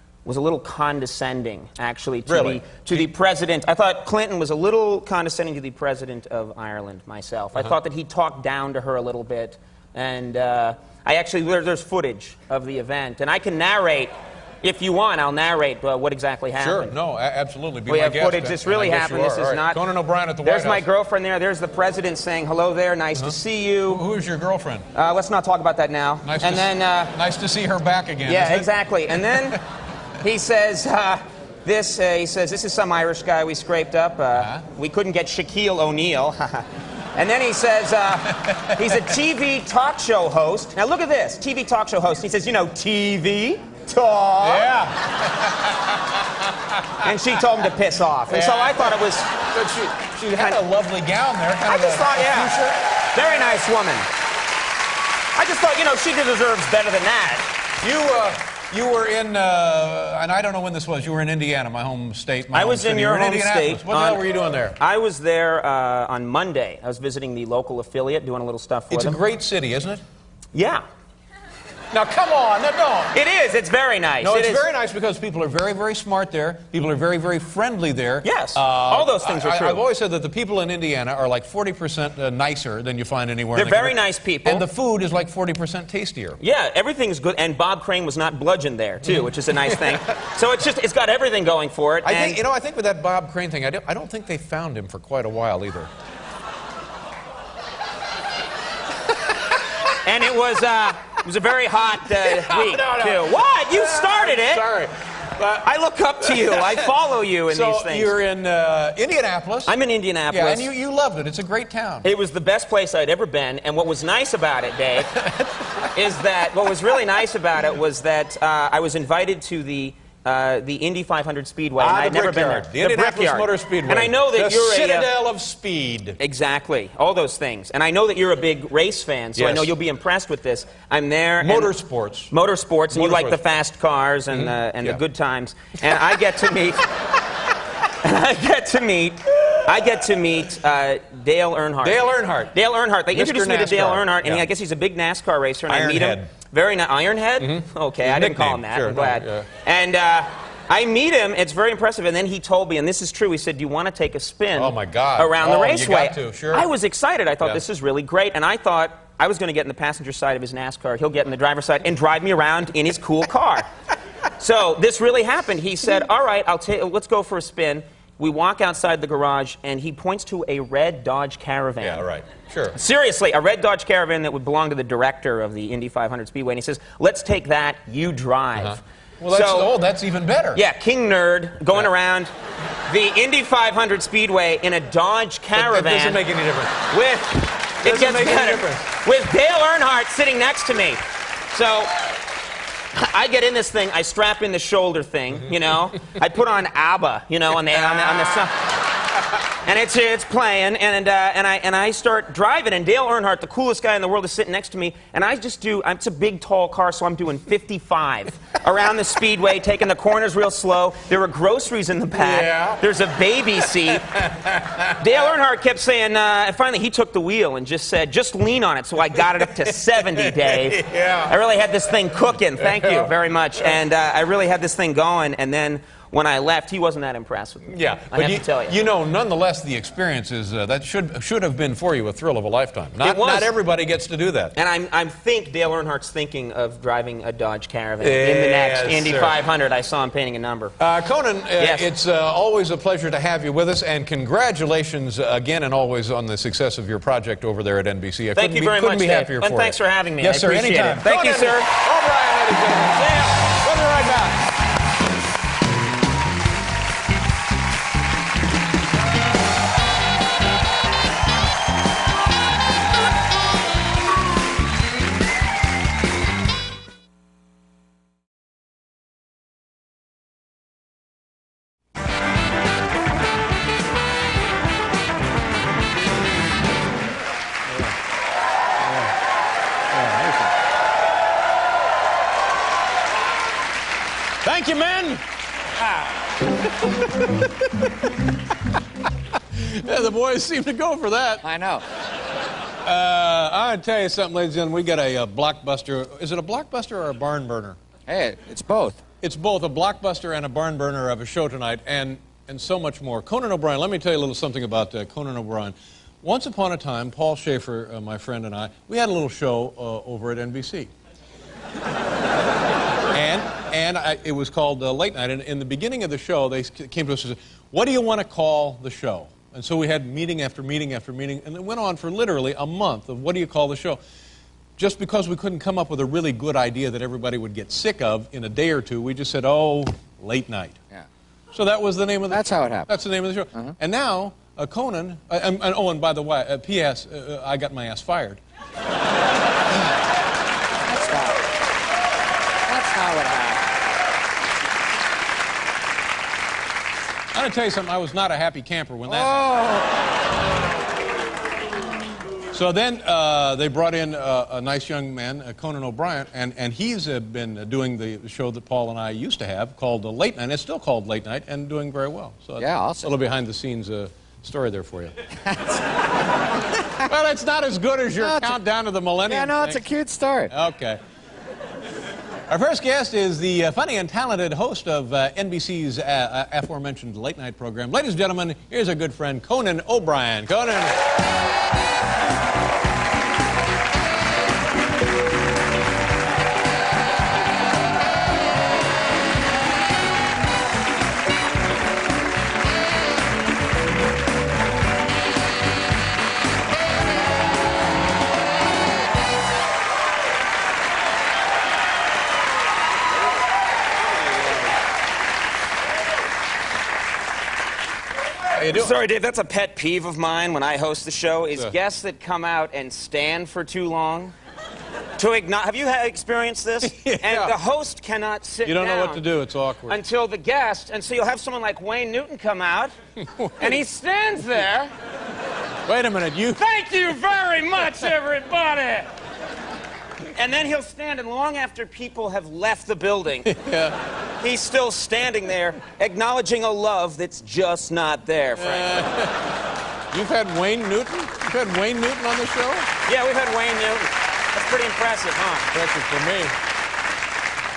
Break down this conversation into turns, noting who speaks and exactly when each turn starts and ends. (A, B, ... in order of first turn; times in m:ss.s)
0:00.2-0:16.9 A
0:02.3-0:03.1 B
0:16.6-0:20.8 B
0:17.9-0:19.8 A
0:20.4-0:24.0 A
0:23.9-0:24.9 B
0:24.9-0:27.1 A
0:26.2-0:29.6 B
0:28.3-0:29.6 A
0:30.2-0:44.7 A
0:34.4-0:34.6 B
0:38.3-0:39.0 B
0:44.4-0:47.1 B
0:47.0-0:49.3 A
0:48.3-0:52.8 B
0:51.7-0:52.5 A
0:53.2-0:54.1 A
0:55.4-0:57.5 A
0:57.8-1:04.8 B
1:02.5-1:04.2 A
1:04.8-1:09.2 A
1:08.9-1:10.0 B
1:10.5-1:10.8 A
1:11.9-1:13.1 B
1:13.1-1:14.6 A
1:14.2-1:26.4 B
1:18.2-1:19.8 A
1:23.6-1:24.6 A
1:26.4-1:32.4 A
1:29.0-1:30.0 B
1:32.0-1:35.9 B
1:40.0-1:44.6 A
1:42.2-1:45.7 B
1:45.6-1:48.1 A
1:46.2-1:46.9 B
1:47.5-1:49.8 B
1:49.7-1:50.7 A
1:50.3-1:52.1 B
1:52.0-1:55.2 A
1:55.1-1:55.9 B
1:55.9-2:05.1 A
2:01.8-2:06.2 B
2:06.2-2:11.7 A
2:09.4-2:09.7 B
2:11.4-2:12.3 B
2:12.3-2:16.8 A
2:12.9-2:13.4 B
2:14.3-2:15.0 B
2:18.0-2:43.7 A
2:19.3-2:20.0 B
2:21.8-2:22.6 B
2:23.1-2:24.5 B
2:25.7-2:26.3 B
2:27.4-2:29.5 B
2:34.6-2:36.7 B
2:44.4-2:52.0 A
2:51.8-2:52.8 B
2:52.8-2:59.7 A
2:58.6-3:00.6 B
3:00.6-3:02.3 A
3:02.9-3:06.2 A
3:05.6-3:06.9 B
3:06.9-3:11.9 A
3:07.8-3:08.9 B
3:12.9-3:18.6 A
3:17.7-3:18.5 B
3:19.6-3:34.1 A
3:32.2-3:32.8 B
3:33.9-3:35.0 B
3:35.0-3:48.8 A
3:39.6-3:41.3 B
3:42.6-3:43.1 B
3:47.7-3:54.5 B
3:53.0-3:53.5 A
3:54.6-4:00.8 A
3:58.0-3:59.4 B
4:00.8-4:14.4 B
4:01.6-4:01.9 A
4:08.4-4:11.7 A
4:37.7-4:38.0 B
4:38.8-4:39.1 B
4:39.9-4:40.5 B
4:44.4-4:45.2 B
4:46.6-4:48.1 B
4:49.6-4:51.4 B
4:51.4-4:51.8 C
4:52.8-4:57.8 B
4:58.1-4:59.0 C
4:59.2-5:10.9 B
5:13.1-5:24.0 B
5:24.8-5:30.8 B
5:31.5-5:38.4 B
5:32.3-5:33.0 C
5:40.8-5:41.5 C
5:42.7-5:43.8 C
5:47.3-5:49.5 B
5:49.1-5:50.0 C
5:52.5-6:05.1 B
6:02.6-6:03.1 C
6:05.5-6:05.8 C
6:07.0-6:09.8 B
6:08.2-6:08.6 C
6:09.2-6:10.5 C
6:10.5-6:11.0 B
6:12.5-6:21.0 B
6:48.5-6:48.9 B
6:48.7-6:54.3 A
6:55.2-6:59.2 A
6:56.8-6:57.5 B
6:58.6-7:00.0 B
6:59.9-7:02.9 A
7:03.2-7:03.8 B
7:03.6-7:04.9 A
7:05.9-7:07.2 B
7:06.6-7:09.1 A
7:10.3-7:13.5 A
7:13.5-7:14.0 B
7:14.4-7:19.0 A
7:18.6-7:19.4 B
7:20.1-7:22.9 B
7:23.1-7:25.7 A
7:25.7-7:26.5 B